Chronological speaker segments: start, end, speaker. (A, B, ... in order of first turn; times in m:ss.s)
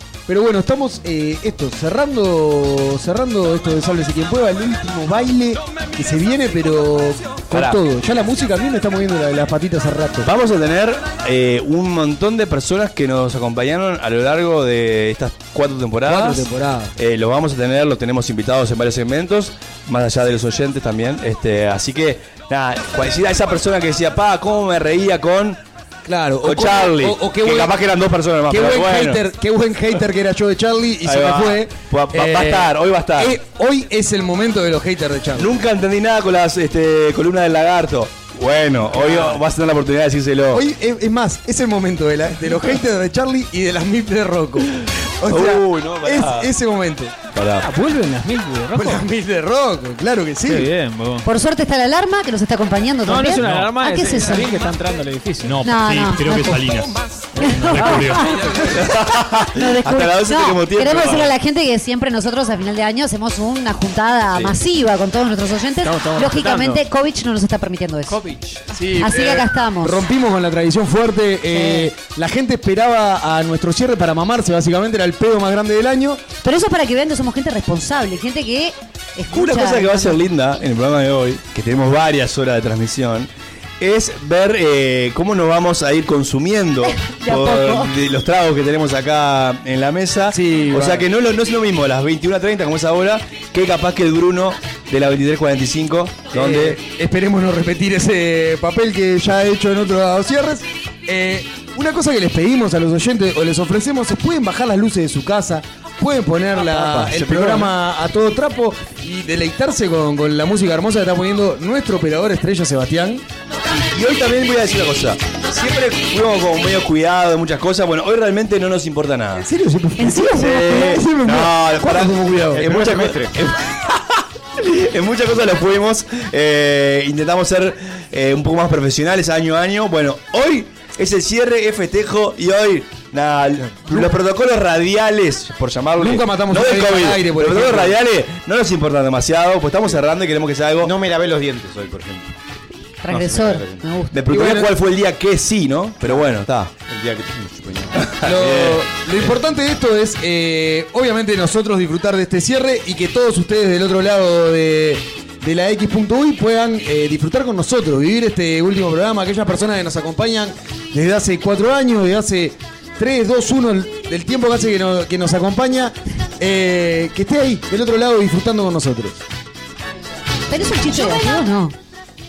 0:00.3-0:10.3 A
0:07.5-0:07.8 B
0:10.2-0:25.6 B
0:16.1-0:16.9 A
0:26.0-0:27.8 A
0:26.4-0:29.2 B
0:28.5-0:35.6 A
0:31.0-0:33.4 B
0:35.4-0:40.6 B
0:39.0-0:39.4 C
0:40.5-0:47.2 A
0:45.3-0:46.5 B
0:47.3-0:47.7 B
0:47.6-0:49.0 C
0:48.7-0:50.7 A
0:50.5-0:51.3 C
0:51.2-0:54.5 D
0:53.0-0:55.8 C
0:53.4-0:53.7 E
0:55.4-0:58.5 E
0:55.6-0:56.7 D
0:57.4-0:58.7 D
0:58.7-1:01.3 B
0:59.6-1:08.2 D
1:05.8-1:06.8 C
1:08.1-1:09.4 C
1:08.9-1:16.2 A
1:09.0-1:10.0 D
1:11.5-1:11.9 D
1:16.4-1:20.2 D
1:19.3-1:36.8 B
1:26.9-1:28.0 D
1:30.3-1:31.1 A
1:36.3-1:53.2 A
1:46.6-1:47.7 B
1:53.8-1:59.5 B
1:59.4-2:02.7 A
2:00.0-2:00.7 D
2:00.1-2:20.9 B
2:02.6-2:03.3 F
2:13.7-2:14.2 A
2:16.0-2:18.0 A
2:20.8-2:22.4 F
2:23.0-2:24.2 D
2:23.1-2:23.9 F
2:24.1-2:26.7 B
2:24.3-2:24.7 A
2:26.0-2:28.1 F
2:28.0-2:29.3 B
2:28.2-2:49.2 A
2:50.5-2:51.8 D